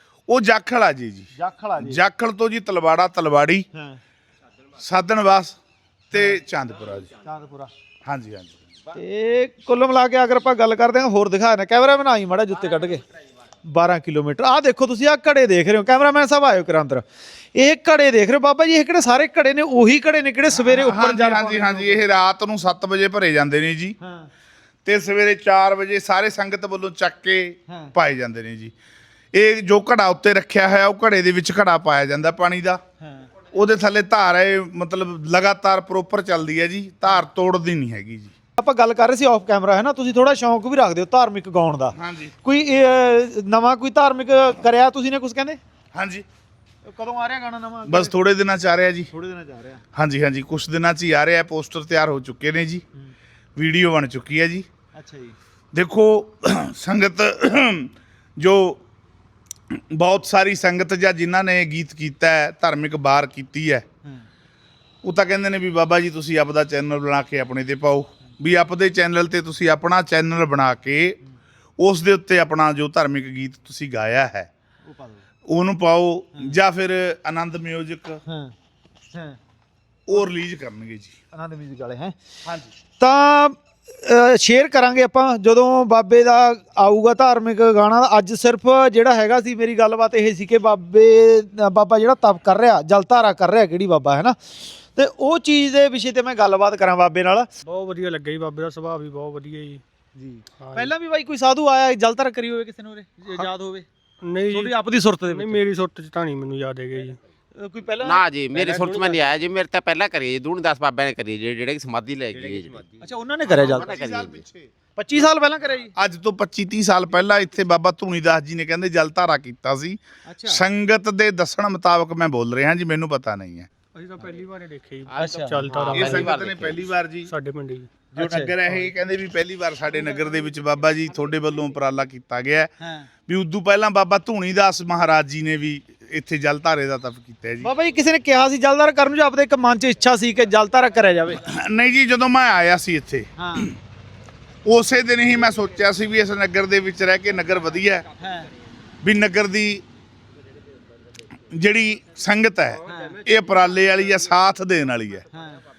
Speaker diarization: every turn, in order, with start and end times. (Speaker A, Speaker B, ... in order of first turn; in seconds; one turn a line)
Speaker A: 0.3-3.7
Speaker B: 1.4-2.0
Speaker B: 3.8-4.0
Speaker A: 4.8-5.6
Speaker A: 6.1-7.1
Speaker B: 6.1-6.4
Speaker B: 7.2-7.7
Speaker A: 8.1-8.6
Speaker B: 8.9-13.0
Speaker B: 13.6-17.0
Speaker B: 17.6-22.0
Speaker A: 20.5-24.0
Speaker B: 24.0-24.3
Speaker A: 24.9-28.7
Speaker B: 27.7-27.9
Speaker A: 29.3-32.8
Speaker B: 33.0-33.3
Speaker A: 33.5-38.3
Speaker B: 38.6-45.6
Speaker A: 41.9-42.4
Speaker A: 45.9-46.2
Speaker B: 46.9-48.1
Speaker A: 47.9-49.1
Speaker B: 49.1-49.8
Speaker A: 50.0-52.8
Speaker A: 53.6-54.7
Speaker B: 55.0-55.4
Speaker A: 55.7-58.8
Speaker A: 59.7-63.9
Speaker A: 65.0-71.2
Speaker A: 71.8-74.5
Speaker B: 74.8-75.2
Speaker A: 75.5-78.2
Speaker B: 78.3-78.5
Speaker B: 79.1-79.4
Speaker A: 80.1-81.2
Speaker B: 81.3-82.2
Speaker A: 82.5-82.7
Speaker B: 83.0-97.5
Speaker C: 97.6-99.8
Speaker B: 100.2-103.9
Speaker C: 100.6-100.9
Speaker C: 104.2-104.7
Speaker B: 104.5-105.6
Speaker C: 105.3-107.2
Speaker B: 107.6-109.4
Speaker D: 108.0-113.0
Speaker B: 113.0-113.9
Speaker A: 113.5-114.7
Speaker D: 113.6-114.4
Speaker B: 115.0-115.9
Speaker A: 116.0-123.7
Speaker B: 120.3-120.7
Speaker C: 124.0-126.3
Speaker B: 125.2-126.2
Speaker D: 125.8-126.9
Speaker A: 125.9-127.3
Speaker C: 127.3-127.9
Speaker B: 128.1-128.6
Speaker A: 128.2-132.7
Speaker B: 132.8-133.1
Speaker A: 133.3-137.7
Speaker B: 137.6-141.4
Speaker A: 141.4-143.7
Speaker B: 143.4-143.7
Speaker A: 144.7-148.1
Speaker B: 148.2-148.5
Speaker A: 149.0-149.8
Speaker A: 151.5-155.2
Speaker B: 152.9-153.2
Speaker B: 155.3-155.6